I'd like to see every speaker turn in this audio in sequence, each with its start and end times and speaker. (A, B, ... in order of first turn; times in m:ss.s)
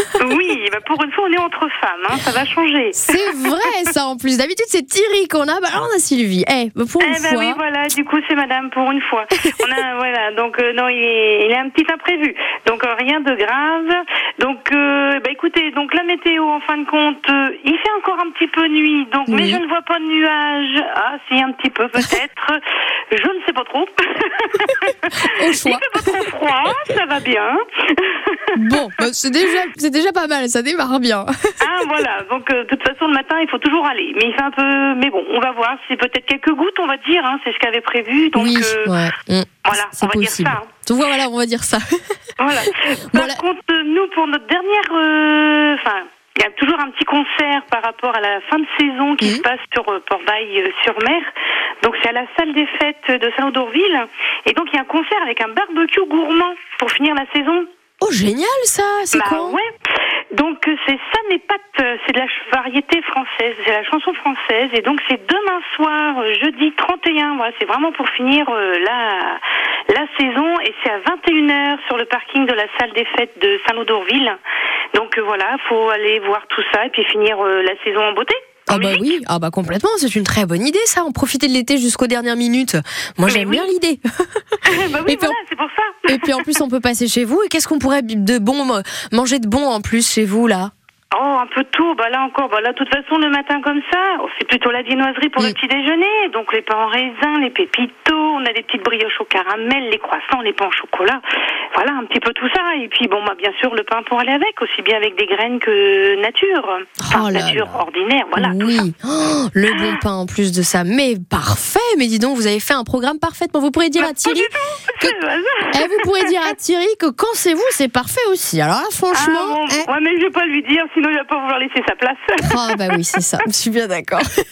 0:00.2-0:03.5 A
0:02.9-0:07.6 B
0:07.0-0:22.6 A
0:19.3-0:19.6 B
0:23.1-0:28.8 A
0:24.6-0:26.1 B
0:28.5-0:31.3 B
0:31.6-0:38.9 A
0:38.3-0:41.8 B
0:39.6-0:40.7 A
0:42.4-0:51.3 A
0:42.7-0:43.4 B
0:51.8-0:57.7 A
0:58.0-0:59.6 B
0:59.1-0:59.7 A
1:00.3-1:14.4 A
1:14.9-1:19.1 A
1:18.7-1:24.4 B
1:23.2-1:23.7 A
1:24.6-1:26.5 A
1:25.0-1:25.4 B
1:26.1-1:30.7 B
1:31.1-1:41.2 A
1:41.7-1:48.8 A
1:47.0-1:47.8 B
1:48.4-1:55.2 B
1:49.7-1:50.0 A
1:54.0-1:56.3 A
1:55.7-1:59.9 B
1:59.1-2:03.0 A
2:02.4-2:04.2 B